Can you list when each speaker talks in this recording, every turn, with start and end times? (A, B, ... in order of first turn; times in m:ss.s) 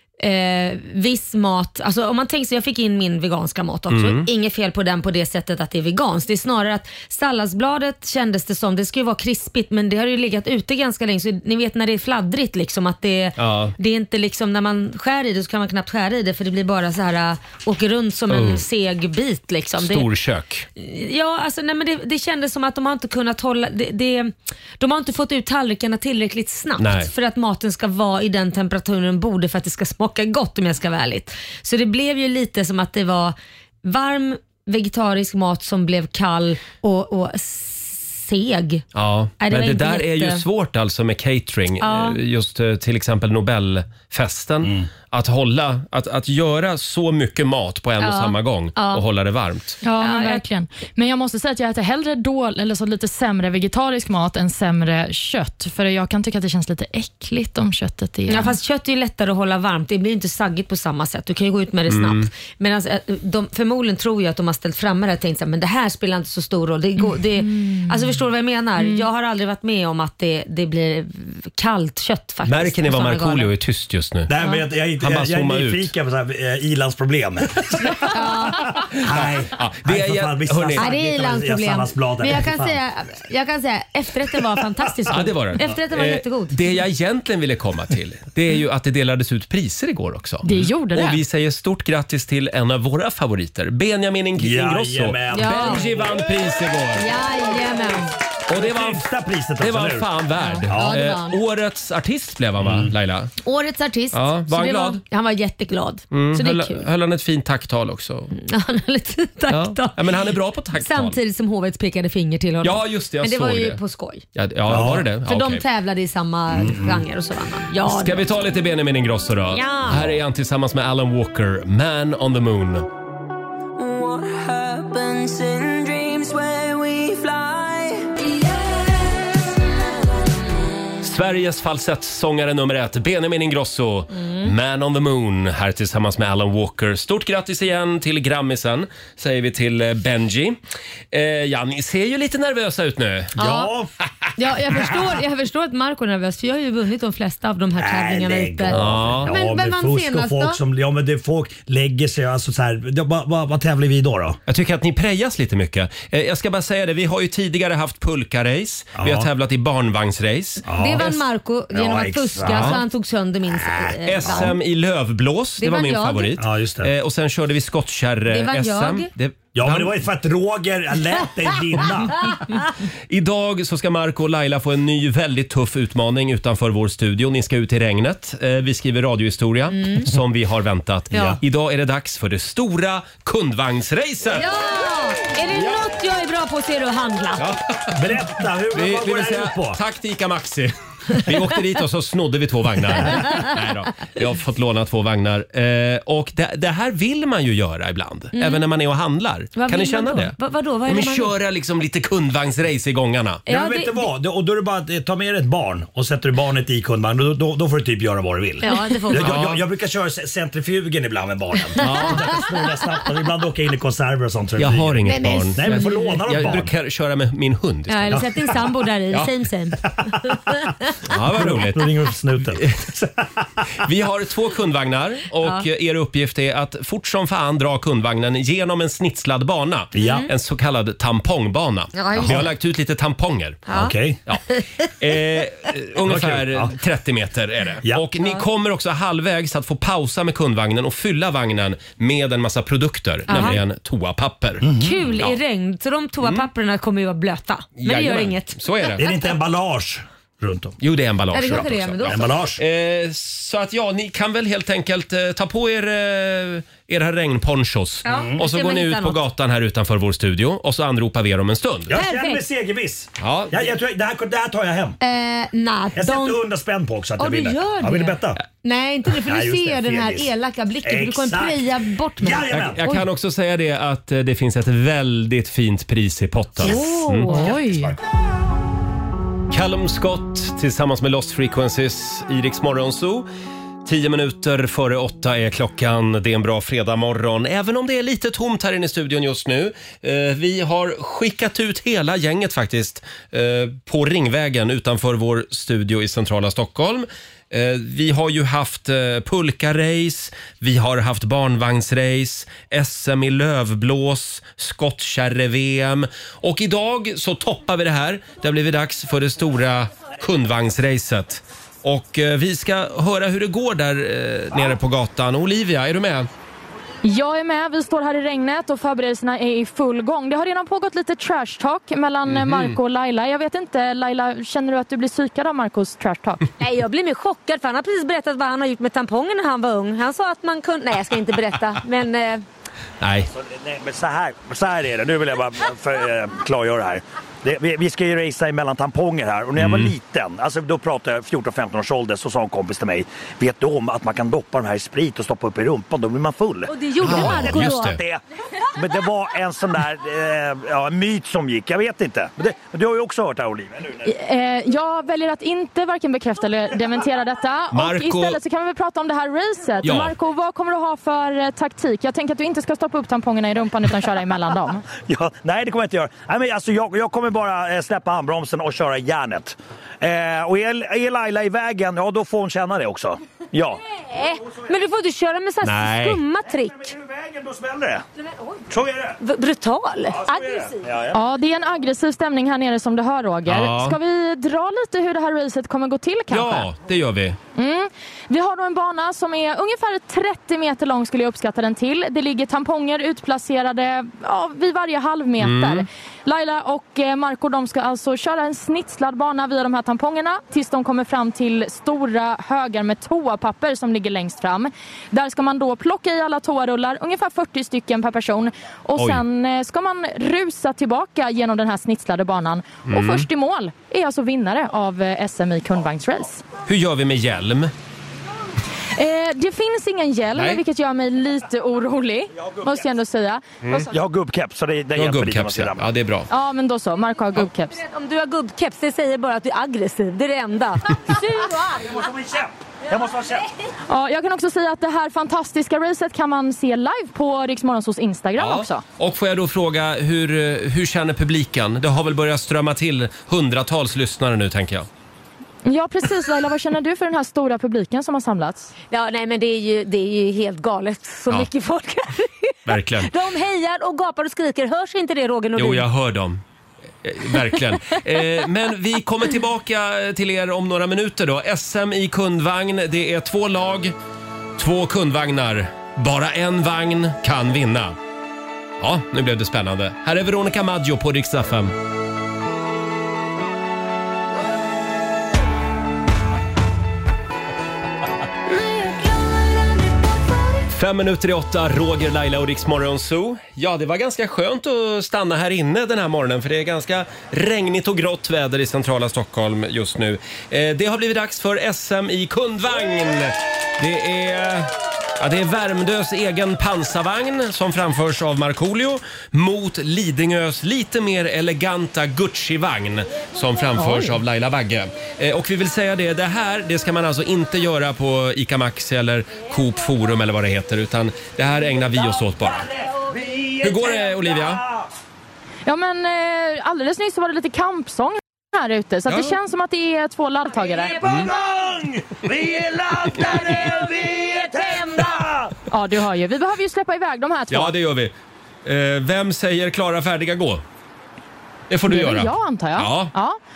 0:00.2-0:20.1 A
0:03.9-0:04.2 B
0:13.4-0:13.7 B
0:18.3-0:18.6 B
0:19.8-0:20.7 B
0:20.8-0:38.8 A
0:26.8-0:27.1 B
0:38.9-0:49.8 B
0:39.4-0:40.4 A
0:41.8-0:42.2 A
0:48.0-0:49.0 A
0:49.8-0:58.6 C
0:50.0-0:50.4 A
0:58.3-1:13.5 A
1:01.9-1:02.3 B
1:07.2-1:08.0 C
1:12.4-1:14.3 B
1:14.3-1:22.7 D
1:15.0-1:15.9 B
1:18.1-1:18.8 A
1:19.0-1:20.9 B
1:20.8-1:26.6 A
1:25.1-1:37.1 B
1:30.4-1:31.2 C
1:34.4-1:36.2 D
1:35.3-1:35.8 A
1:37.0-1:38.1 A
1:38.5-1:39.0 B
1:38.5-1:40.1 D
1:39.6-1:43.3 B
1:40.4-1:41.4 A
1:40.7-1:41.0 D
1:42.6-1:42.9 D
1:43.4-1:46.8 A
1:44.1-1:45.0 B
1:46.1-1:48.3 B
1:48.3-1:54.2 A
1:49.5-1:51.2 B
1:52.6-1:53.8 B
1:54.3-1:55.6 B
1:54.7-1:55.1 D
1:55.2-1:58.3 A
1:56.5-1:57.0 D
1:57.8-2:02.9 B
1:59.5-2:00.2 A
2:03.8-2:10.7 E
2:11.0-2:20.6 B
2:14.1-2:14.5 A
2:21.1-2:23.3 B
2:23.4-2:23.9 D
2:23.4-2:23.7 A
2:24.4-2:30.6 A
2:27.8-2:34.4 D
2:28.7-2:29.3 B
2:34.5-2:40.6 B
2:39.0-2:39.3 D
2:40.6-2:41.2 D
2:40.7-2:44.5 A
2:41.7-2:42.8 D
2:42.4-2:42.8 B
2:43.7-2:44.5 D
2:44.0-2:50.0 B
2:45.6-2:46.4 A
2:46.4-2:46.9 D
2:48.3-2:49.1 A
2:49.5-2:52.3 D
2:53.1-3:04.5 B
2:59.7-3:00.1 A
3:01.1-3:01.4 A
3:04.3-3:07.4 A
3:05.5-3:05.8 B
3:07.4-3:23.4 B
3:07.9-3:09.8 D
3:18.3-3:18.6 A
3:19.5-3:21.3 A
3:23.5-3:24.1 A
3:23.5-3:36.7 D
3:28.6-3:29.4 A
3:29.1-3:29.6 B
3:31.8-3:32.3 A
3:31.8-3:32.5 B
3:34.6-3:38.3 B
3:35.0-3:36.1 A
3:37.9-3:40.8 A
3:41.0-3:42.0 B
3:41.3-3:43.1 D
3:43.8-3:53.7 B
3:49.9-3:50.2 D
3:50.0-3:50.3 A
3:51.9-3:52.5 A
3:53.7-3:53.9 A
3:53.7-3:54.2 D
3:54.3-4:04.7 B
3:56.0-3:56.7 D
4:03.3-4:03.6 A
4:04.6-4:05.0 D
4:04.8-4:09.1 A
4:07.8-4:09.1 B
4:09.0-4:10.8 D
4:10.8-4:22.0 B
4:11.3-4:12.4 A
4:11.5-4:12.6 D
4:18.0-4:19.2 A
4:18.1-4:18.4 D
4:21.9-4:25.0 D
4:21.9-4:22.4 A
4:23.2-4:23.7 B
4:25.0-4:26.4 A
4:26.0-4:28.4 D
4:27.2-4:33.0 A
4:29.2-4:30.3 D
4:30.8-4:31.6 D
4:32.2-4:32.8 D
4:32.5-4:37.3 B
4:36.6-4:37.5 A
4:37.3-4:37.9 C
4:37.4-4:38.0 D
4:39.5-4:43.3 B
4:43.8-5:16.3 B
5:17.0-5:26.4 C
5:22.3-5:22.8 B
5:26.6-5:32.4 A
5:33.0-5:33.3 B
5:33.3-5:48.2 D
5:39.6-5:39.9 B
5:46.7-5:47.9 A
5:47.0-5:48.0 B
5:48.7-5:54.1 D
5:54.0-6:04.8 C
5:57.7-5:58.4 B
5:59.8-6:00.1 B
6:04.9-6:14.8 D
6:14.1-6:16.9 A
6:15.6-6:16.2 B
6:16.5-6:18.0 D
6:18.7-6:19.2 D
6:19.2-6:20.8 A
6:20.1-6:21.2 D
6:21.1-6:26.7 C
6:23.5-6:24.0 B
6:26.3-6:27.4 B
6:27.6-6:56.4 C
6:35.4-6:35.8 B
6:49.0-6:49.2 B
6:52.9-6:53.2 B
6:56.7-6:57.7 B
6:58.9-7:03.4 C
7:00.4-7:00.6 B
7:02.3-7:02.8 D
7:03.6-7:03.9 B
7:03.9-7:05.9 D
7:04.9-7:06.3 B
7:06.3-7:07.8 C
7:07.7-7:11.9 A
7:11.8-7:13.5 D
7:13.9-7:18.8 C
7:18.4-7:24.9 B
7:25.6-7:28.7 C
7:28.9-7:35.9 A
7:32.7-7:33.1 B
7:35.6-7:36.4 B
7:37.0-7:43.9 B
7:44.6-7:48.0 B
7:48.8-7:51.7 B
8:00.7-8:32.7 B
8:23.8-8:24.2 A
8:32.4-8:34.8 D
8:33.6-8:34.6 B
8:35.6-8:41.0 C
8:39.1-8:39.3 B
8:40.8-8:45.5 D
8:41.0-8:41.3 B
8:45.7-8:47.7 C
8:47.5-8:50.6 B
8:51.7-8:53.1 B
8:51.9-8:53.4 C